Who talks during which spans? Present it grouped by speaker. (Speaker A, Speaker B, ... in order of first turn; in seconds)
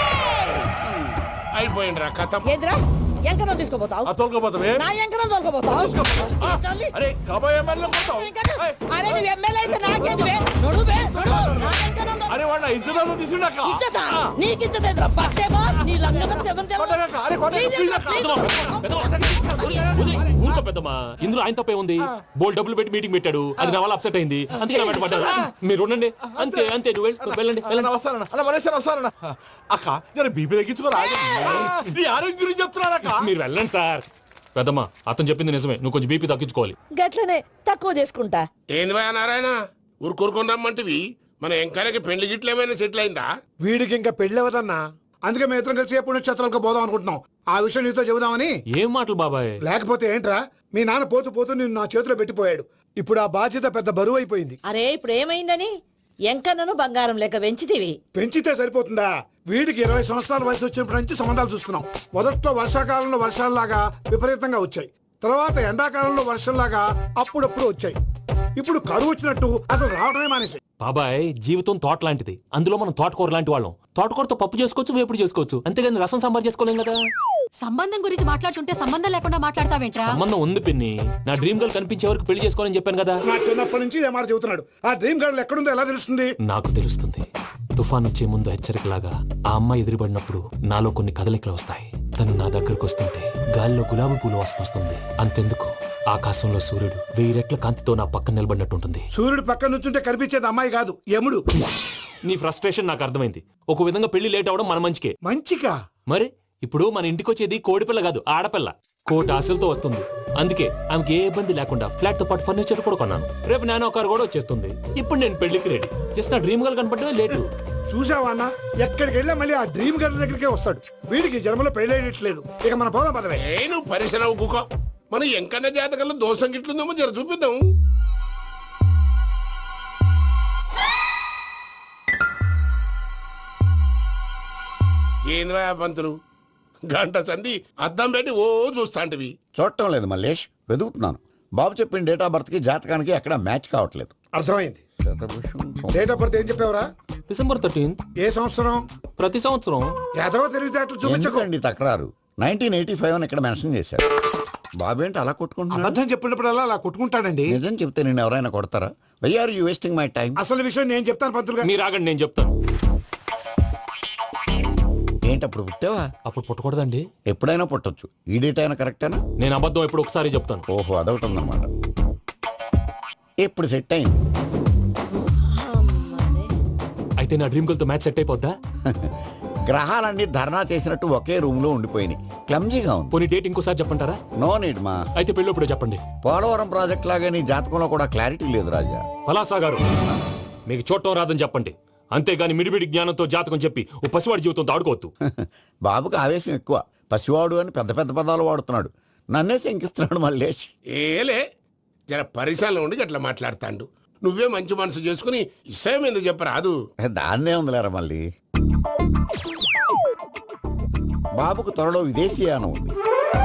Speaker A: 1.5-2.5, 38.7-43.3, 123.4-127.6, 135.3-136.2, 136.9-139.3, 200.9-201.4, 202.1-206.8
Speaker B: 2.4-4.1, 4.8-7.0, 8.0-12.3, 13.6-18.4, 36.9-38.5, 54.6-55.7, 56.3-58.0, 175.5-176.5
Speaker C: 4.0-4.9, 5.8-14.0, 16.8-20.0, 27.2-33.3
Speaker D: 18.1-27.9, 33.1-36.8, 48.7-49.5, 70.8-77.0, 80.0-83.2, 86.4-99.1, 102.3-105.1, 106.1-117.5, 147.3-148.0, 149.2-150.0, 161.6-162.6, 166.2-167.1, 169.4-170.7, 177.2-178.5, 183.1-184.2, 185.2-186.0, 189.2-189.8, 190.7-195.1
Speaker E: 43.6-48.5, 49.6-54.6, 58.1-68.0, 68.6-70.6, 83.3-86.3, 99.1-101.4, 105.2-105.8, 117.9-123.4, 144.3-144.8, 145.9-146.9, 148.2-148.8, 150.2-151.5, 155.7-157.6, 160.4-161.7
Speaker F: 77.6-80.1
Speaker G: 139.6-144.1, 145.0-146.1, 151.0-154.1, 154.8-156.0, 157.5-160.4, 165.3-166.1, 167.3-169.2, 170.7-171.7, 173.4-174.1, 179.7-183.2, 184.4-185.0, 186.2-189.0, 195.2-200.7, 207.0-208.2, 211.4-212.9